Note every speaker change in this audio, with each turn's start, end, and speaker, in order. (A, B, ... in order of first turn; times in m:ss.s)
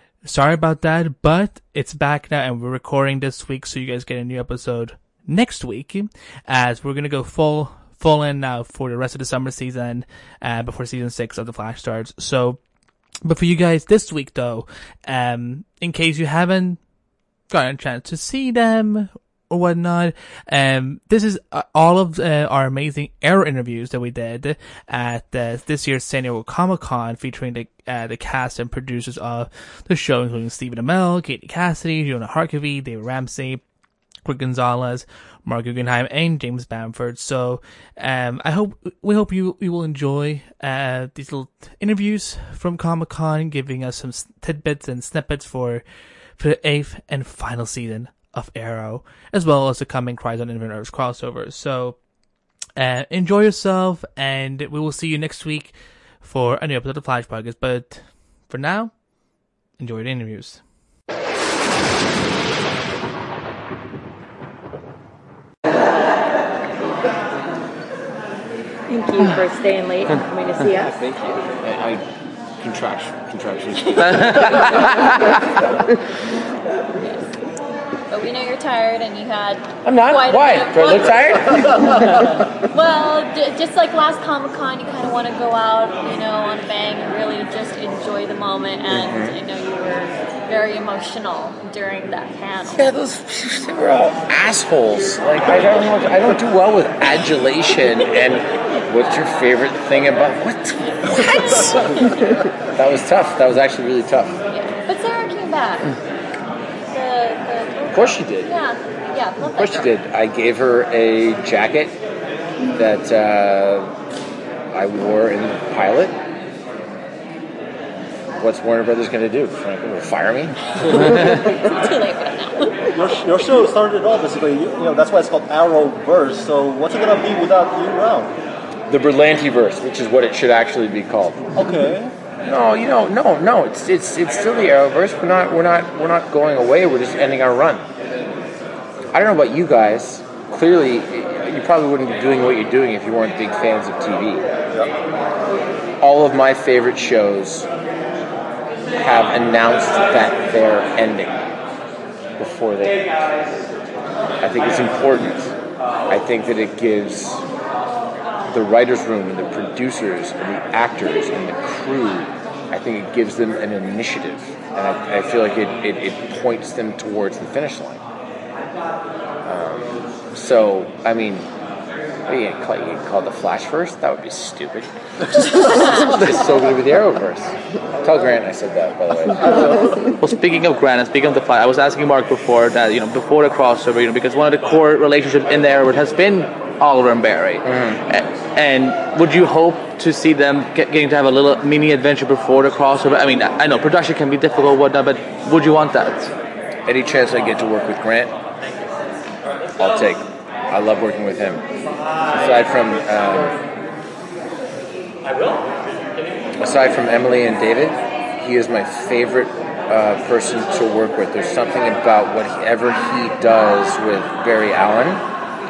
0:00.2-0:12.6 A
0:13.2-0:16.9 A
0:17.5-0:33.6 A
0:34.2-0:45.8 A
0:46.4-0:52.0 A
0:52.8-0:59.0 A
0:59.7-1:00.6 A
1:08.9-1:10.9 B
1:11.6-1:12.0 C
1:12.6-1:15.0 C
1:14.0-1:14.9 D
1:18.1-1:21.9 E
1:19.8-1:22.2 C
1:22.7-1:32.9 E
1:28.9-1:29.3 C
1:32.7-1:42.0 C
1:42.8-1:44.4 C
1:44.5-1:45.9 E
1:46.9-1:49.9 E
1:47.9-1:48.5 C
1:49.5-1:52.0 C
1:52.8-1:53.9 C
1:54.7-1:56.1 C
1:58.4-2:01.0 C
2:01.2-2:02.7 E
2:02.9-2:08.3 F
2:08.9-2:11.4 C
2:11.5-2:12.1 F
2:12.4-2:17.8 C
2:19.1-2:24.4 C
2:26.0-2:27.7 C
2:29.0-2:31.3 C
2:32.4-2:33.2 C
2:34.4-2:35.5 C
2:36.1-2:37.4 C
2:38.4-2:48.0 C
2:49.4-2:51.5 C
2:52.3-2:59.7 C
3:00.2-3:16.3 D
3:07.6-3:08.0 C
3:16.8-3:18.3 C
3:19.8-3:21.6 C
3:22.3-3:23.6 C
3:26.6-3:35.2 C